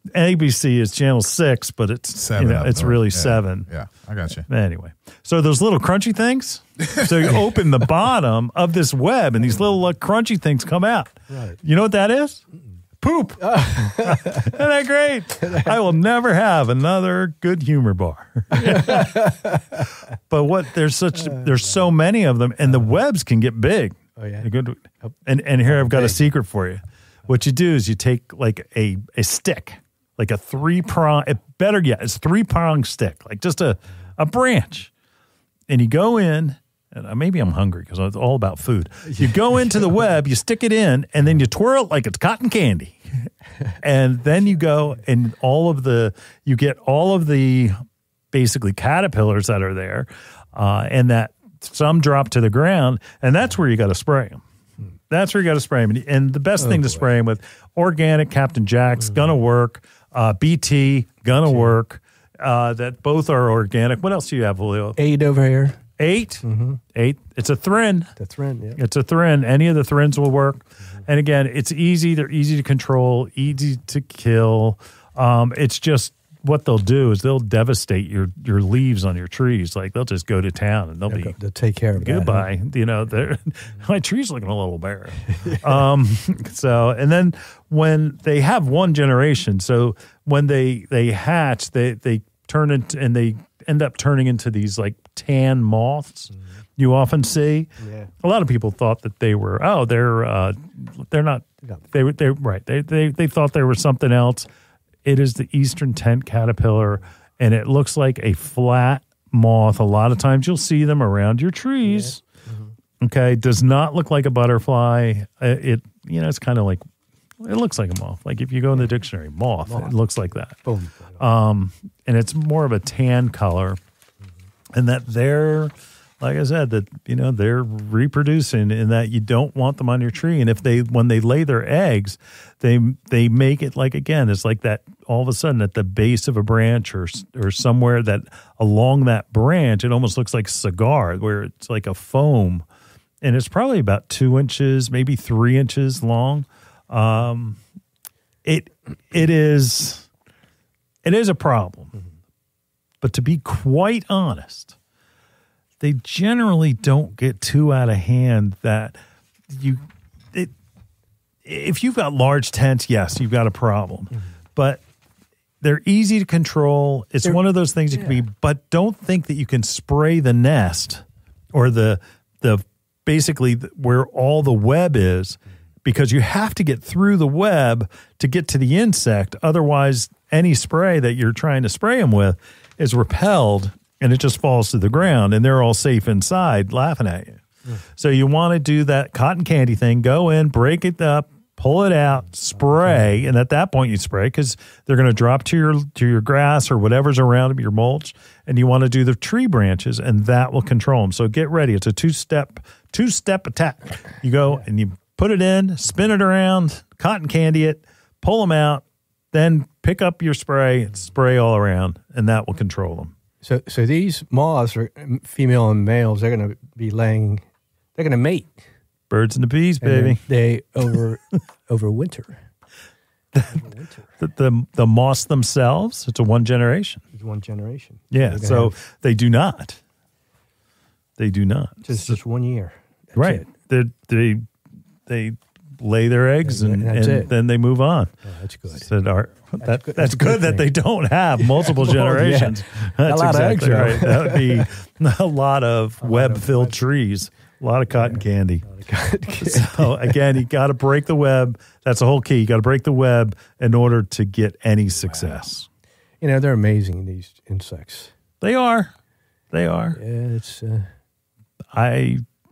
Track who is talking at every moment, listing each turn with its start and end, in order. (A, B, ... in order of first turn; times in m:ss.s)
0:00.1-0:03.7 A
0:02.2-0:04.4 B
0:04.4-0:12.4 A
0:11.3-0:11.6 C
0:13.0-0:34.9 A
0:13.4-0:14.5 C
0:18.5-0:19.8 C
0:21.2-0:21.5 C
0:24.2-0:24.5 C
0:25.6-0:26.2 C
0:35.7-0:47.8 A
0:48.3-0:54.4 A
0:55.1-1:05.0 A
0:56.6-0:57.0 C
1:01.4-1:01.8 C
1:05.0-1:05.8 C
1:06.0-1:06.4 A
1:06.4-1:06.8 C
1:06.9-1:08.1 A
1:08.2-1:08.8 C
1:08.8-1:21.4 A
1:21.1-1:22.5 C
1:21.9-1:37.7 A
1:37.8-1:38.1 C
1:38.2-1:44.5 A
1:45.0-1:52.2 A
1:51.8-1:52.7 C
1:53.0-1:56.8 A
1:57.4-2:00.6 A
1:59.6-2:00.0 C
2:00.6-2:01.2 C
2:01.2-2:03.8 A
2:04.7-2:22.6 A
2:23.2-2:27.6 A
2:28.4-2:30.1 A
2:31.0-2:31.9 A
2:33.0-2:34.8 A
2:35.8-2:39.0 A
2:39.5-2:40.5 A
2:41.4-2:44.8 A
2:45.6-3:33.1 A
2:47.9-2:48.2 C
3:33.4-3:38.6 C
3:39.1-3:40.2 A
3:39.8-3:42.4 C
3:43.3-3:43.6 A
3:43.5-3:44.1 C
3:44.2-3:47.0 A
3:47.1-3:48.8 C
3:48.1-3:49.8 A
3:51.2-3:52.2 A
3:51.8-3:53.5 C
3:53.2-3:54.4 A
3:55.1-3:58.1 A
3:56.4-3:57.3 C
3:58.2-3:58.9 C
3:58.7-4:08.7 A
3:59.6-4:00.7 C
4:01.4-4:04.7 C
4:06.0-4:06.8 C
4:07.9-4:10.2 C
4:09.3-4:15.7 A
4:15.0-4:15.3 C
4:16.2-4:18.1 C
4:18.4-4:18.9 A
4:19.5-4:20.0 A
4:19.9-4:20.9 C
4:21.7-4:22.2 A